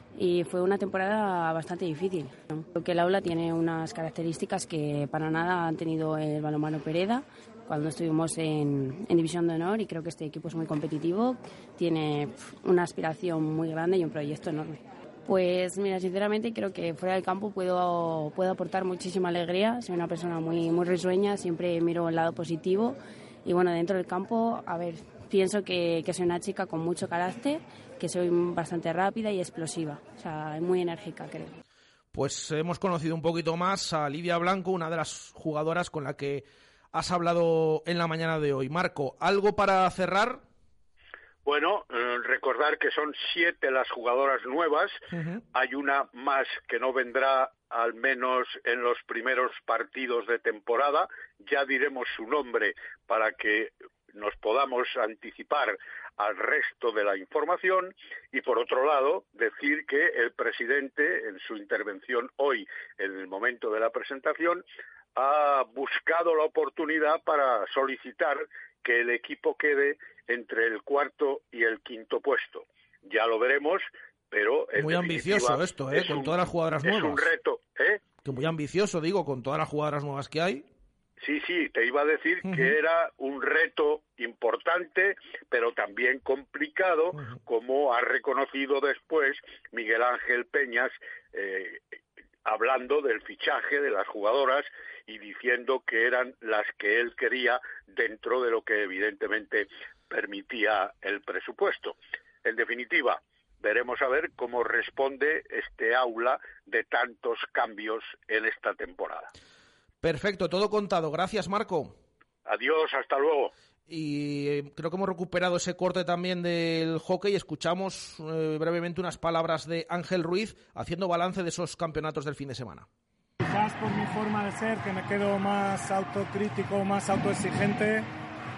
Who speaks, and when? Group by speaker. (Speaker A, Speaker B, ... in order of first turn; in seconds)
Speaker A: 0.2-31.6
Speaker B: 32.1-40.4, 74.8-77.3, 78.2-80.7, 82.5-82.7, 110.0-111.9, 113.9-122.9
Speaker C: 41.5-45.0, 45.5-64.6, 65.2-78.0, 81.2-91.8, 92.5-109.3, 112.5-113.5
Speaker D: 123.5-128.1